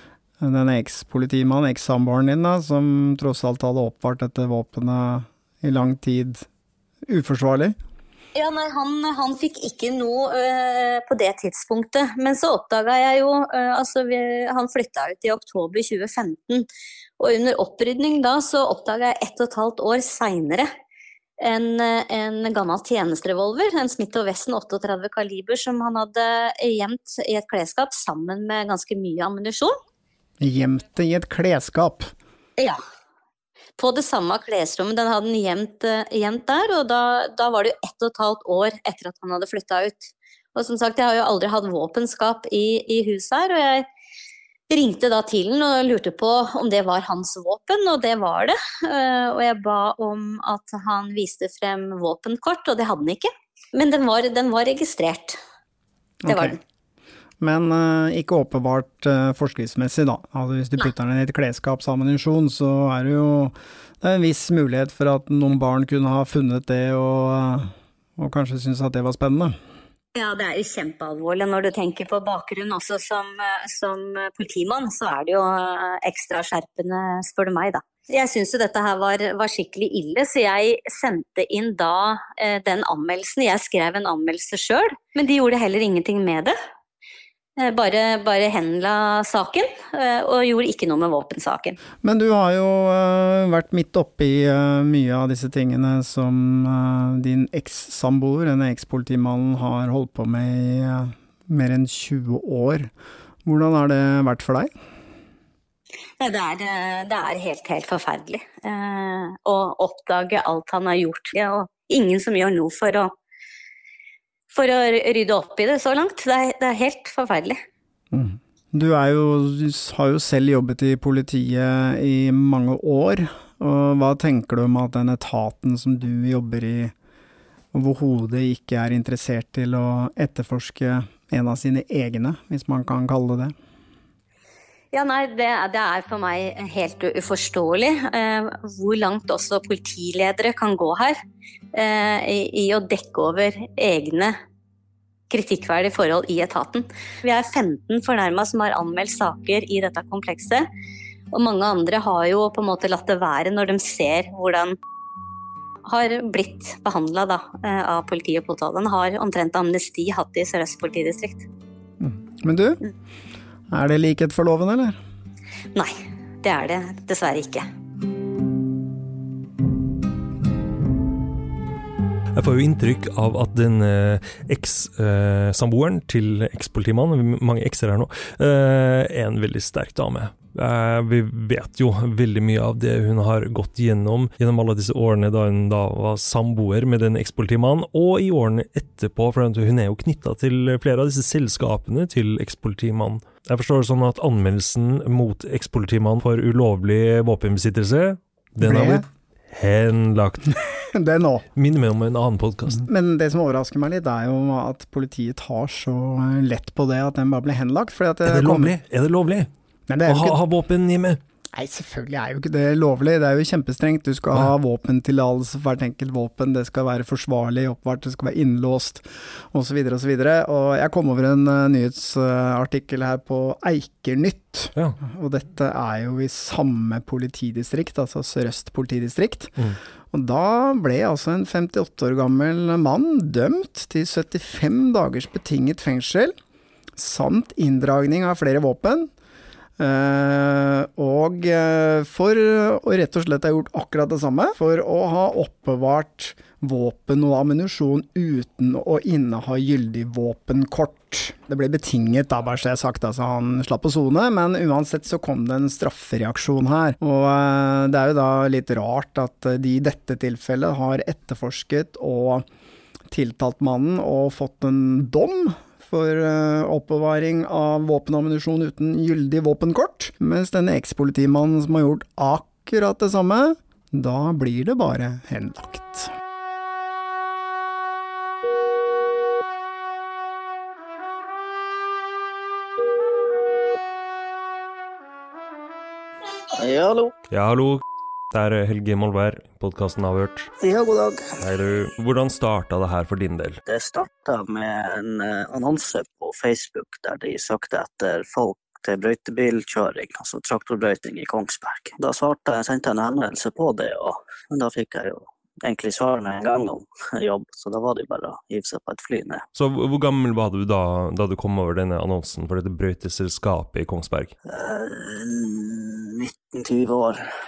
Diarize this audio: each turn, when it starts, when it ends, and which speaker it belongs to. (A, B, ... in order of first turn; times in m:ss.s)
0:00.4-0:06.5 A
0:07.1-0:07.8 A
0:08.4-0:16.7 B
0:17.2-0:20.7 B
0:21.4-0:29.8 B
0:30.4-0:32.1 A
0:33.8-0:43.9 B
0:44.7-0:55.4 B
0:56.2-0:56.6 A
0:56.3-0:56.5 B
0:57.4-1:09.6 A
1:10.2-1:26.6 B
1:27.6-1:31.8 B
1:32.0-1:42.9 A
1:43.4-1:44.7 A
1:46.2-1:53.1 B
1:54.5-1:57.6 B
1:58.1-2:06.9 A
2:07.7-2:13.5 A
2:14.9-2:21.2 B
2:21.7-2:24.4 B
2:25.3-2:30.7 B
2:31.3-2:34.8 B
2:35.9-2:41.5 B
2:42.0-2:42.8 A
2:43.7-2:45.0 A
2:45.7-2:47.7 B
2:52.4-3:20.6 C
3:18.6-3:19.0 A
3:20.9-3:21.4 A
3:21.6-3:22.8 C
3:22.8-3:28.8 A
3:28.3-3:29.5 C
3:29.9-3:30.4 A
3:30.1-3:31.2 C
3:31.5-3:49.5 A
3:50.1-3:56.4 A
3:57.0-3:59.1 A
3:59.8-4:22.4 A
4:23.1-4:36.1 A
4:46.5-4:47.1 D
4:47.3-4:50.5 C
4:50.6-4:51.4 D
4:51.4-4:53.6 C
4:53.7-5:09.4 D
5:09.6-5:14.4 C
5:14.5-5:17.2 D